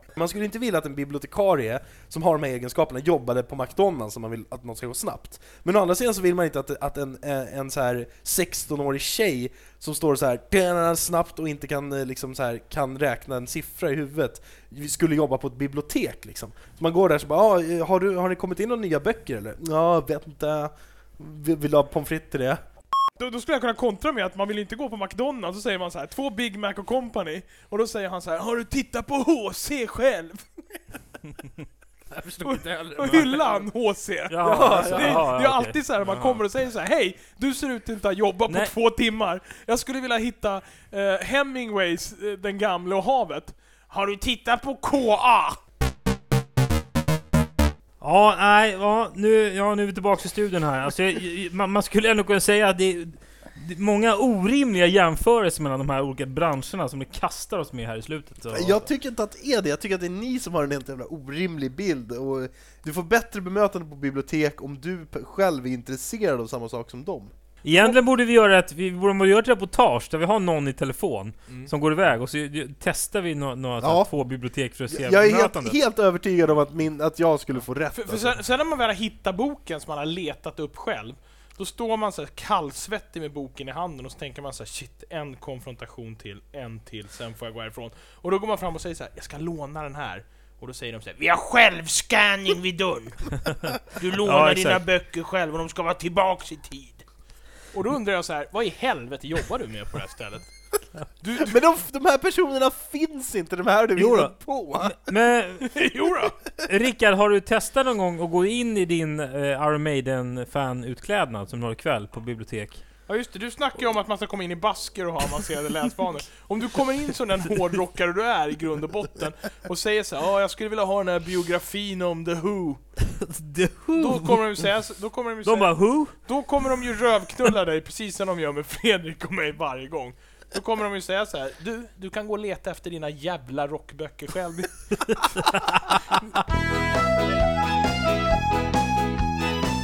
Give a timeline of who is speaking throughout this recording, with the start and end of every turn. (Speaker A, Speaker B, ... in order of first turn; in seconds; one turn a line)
Speaker A: 0.1-22.6
Speaker B: 23.2-30.8
Speaker A: 32.1-33.4
Speaker B: 32.4-45.6
Speaker C: 33.0-33.3
Speaker C: 34.3-36.4
Speaker A: 34.4-35.3
Speaker C: 48.0-58.9
Speaker A: 58.5-67.3
Speaker C: 67.6-75.8
Speaker A: 73.8-74.1
Speaker A: 74.9-78.4
Speaker B: 77.9-97.0
Speaker C: 94.2-94.8
Speaker B: 97.7-100.5
Speaker B: 101.2-101.6
Speaker A: 101.3-105.0
Speaker C: 104.0-105.8
Speaker B: 105.6-106.3
Speaker C: 106.6-112.8
Speaker B: 113.1-122.8
Speaker C: 123.2-124.4
Speaker B: 124.0-135.3
Speaker C: 125.4-126.2
Speaker C: 135.1-135.9